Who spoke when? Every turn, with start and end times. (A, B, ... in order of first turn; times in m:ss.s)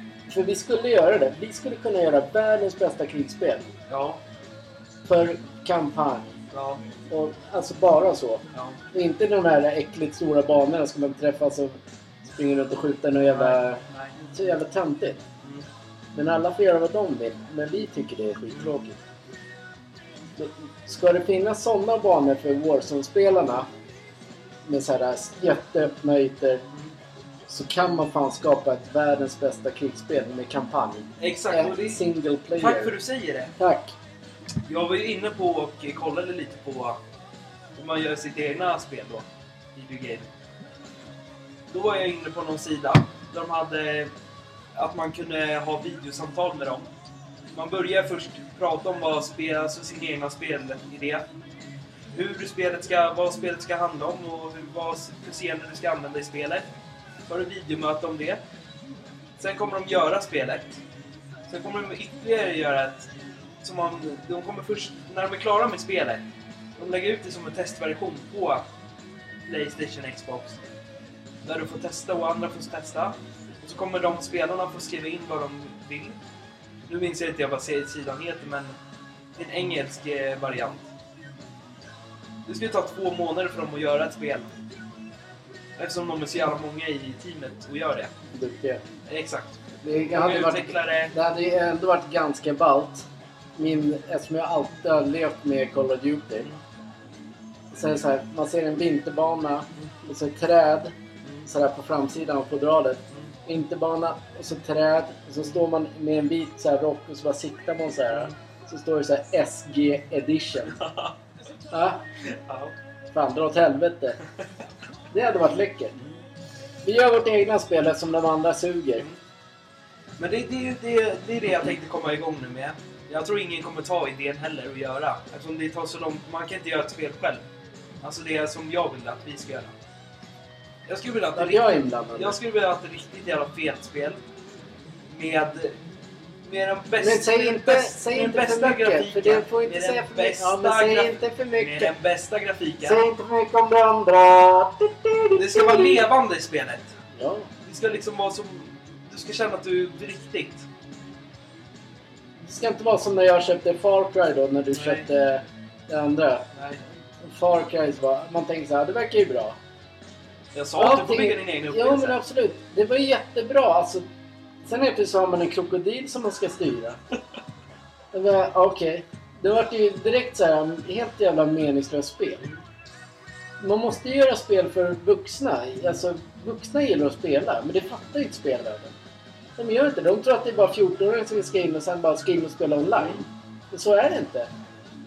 0:00.3-0:03.7 A
0:03.9-0:04.2 B
0:05.1-0:06.4 A
0:06.5-0:06.8 B
0:07.1-0:13.8 A
0:08.5-0:08.8 B
0:13.3-0:14.3 B
0:14.3-0:15.2 A
0:16.1-0:19.0 A
0:20.4-0:23.7 A
0:24.7-0:26.6 A
0:27.5-0:32.9 A
0:31.2-0:32.0 B
0:32.6-0:33.5 B
0:33.6-0:33.9 A
0:34.7-0:37.0 B
0:37.8-0:40.3 B
0:41.7-0:44.1 B
0:44.8-0:46.9 B
0:47.5-0:51.2 B
0:52.1-0:56.6 B
0:57.3-0:58.4 B
0:59.4-1:00.8 B
1:01.5-1:03.1 B
1:03.6-1:06.3 B
1:06.8-1:08.6 B
1:09.5-1:10.6 B
1:11.4-1:16.2 B
1:16.9-1:18.8 B
1:19.4-1:20.8 B
1:22.5-1:24.5 B
1:25.8-1:28.1 B
1:28.3-1:28.8 A
1:29.1-1:31.1 B
1:29.8-1:33.1 A
1:33.6-1:36.5 A
1:37.7-1:40.9 A
1:41.4-1:50.8 A
1:50.8-1:51.1 B
1:51.7-1:52.0 A
1:52.3-1:52.7 B
1:53.1-1:54.2 A
1:55.1-1:56.0 A
1:56.8-1:59.0 A
2:00.2-2:07.4 B
2:08.0-2:09.7 B
2:10.9-2:14.2 B
2:11.4-2:12.4 A
2:15.1-2:15.8 B
2:16.4-2:23.0 B
2:17.0-2:21.9 A
2:22.8-2:26.0 A
2:25.4-2:26.9 B
2:27.2-2:27.5 A
2:27.6-2:30.6 B
2:32.4-2:36.5 A
2:34.7-2:35.1 B
2:36.6-2:36.8 B
2:37.2-2:39.6 A
2:40.5-2:42.2 B
2:40.8-2:44.0 A
2:44.6-2:47.0 A
2:48.1-2:52.5 A
2:53.6-2:58.9 A
2:59.6-3:04.5 A